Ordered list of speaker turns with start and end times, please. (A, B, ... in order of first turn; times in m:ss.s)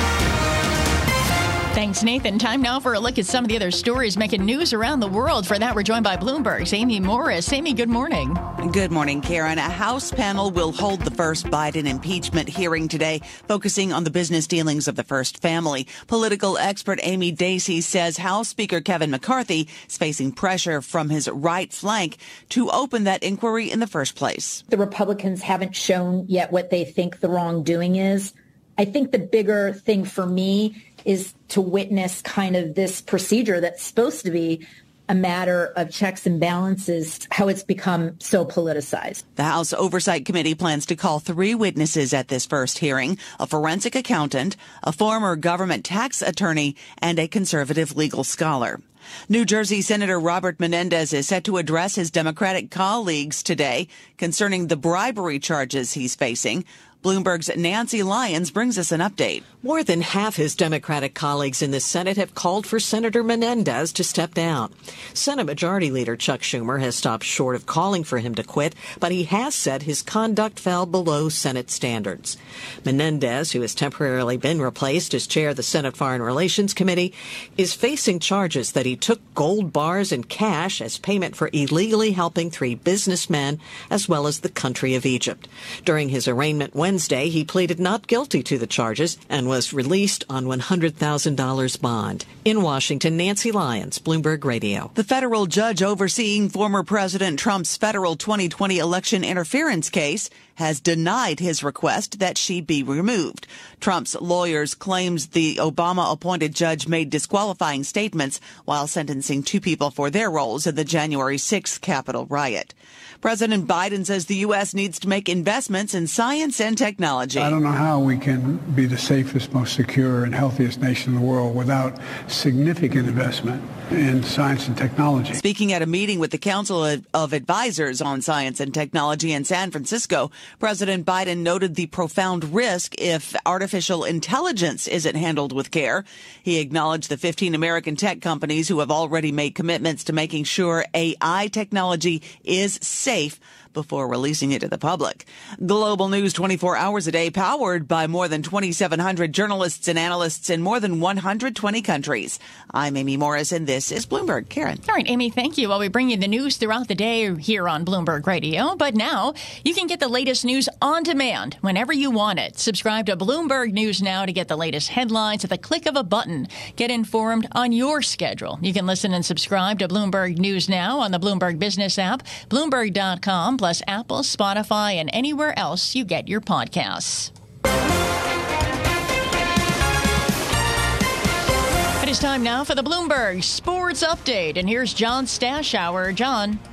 0:01.7-0:08.4 A
0:08.6-0:24.6 B
0:24.7-0:39.2 C
0:39.4-0:59.4 B
0:59.6-1:34.9 D
1:35.0-1:57.6 B
1:57.4-2:03.4 E
2:04.0-2:05.4 E
2:05.4-2:34.8 B
2:34.9-2:57.3 A
3:02.0-3:06.6 A